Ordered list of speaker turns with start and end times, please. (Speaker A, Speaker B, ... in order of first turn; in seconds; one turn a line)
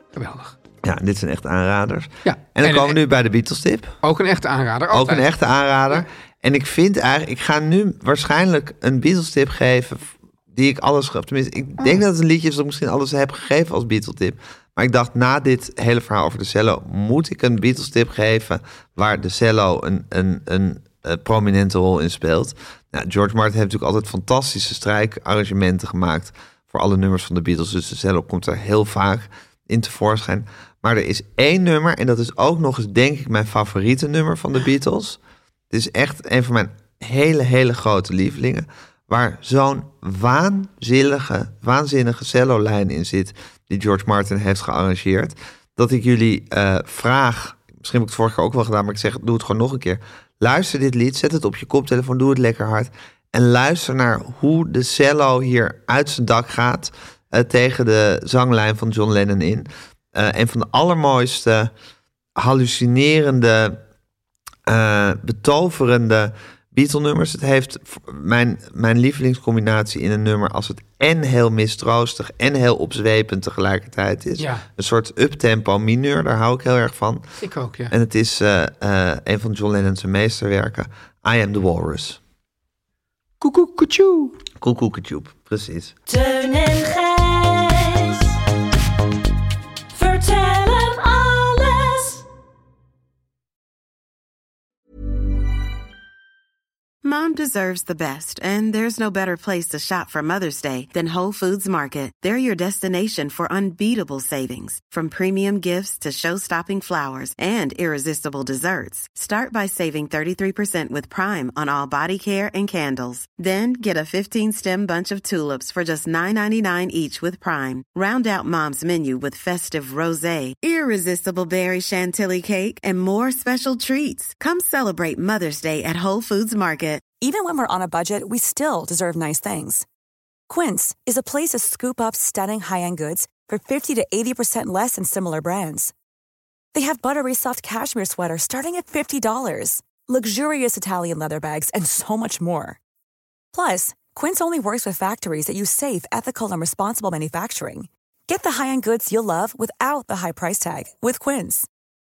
Speaker A: 0.1-0.5
Speaker B: 0.8-3.9
Speaker A: 2.2-3.0
Speaker A: 4.0-5.3
Speaker B: 4.9-35.2
Speaker B: 35.7-61.7
Speaker B: 62.4-63.8
Speaker B: 64.7-77.2
Speaker A: 74.4-74.7
Speaker A: 77.4-77.9
Speaker B: 77.9-82.2
Speaker A: 83.4-84.4
Speaker B: 84.6-85.9
Speaker C: 86.1-88.3
Speaker C: 89.9-92.2
Speaker D: 97.0-127.0
Speaker E: 127.2-129.8
Speaker E: 130.5-135.9
Speaker E: 136.7-142.8
Speaker E: 143.5-151.7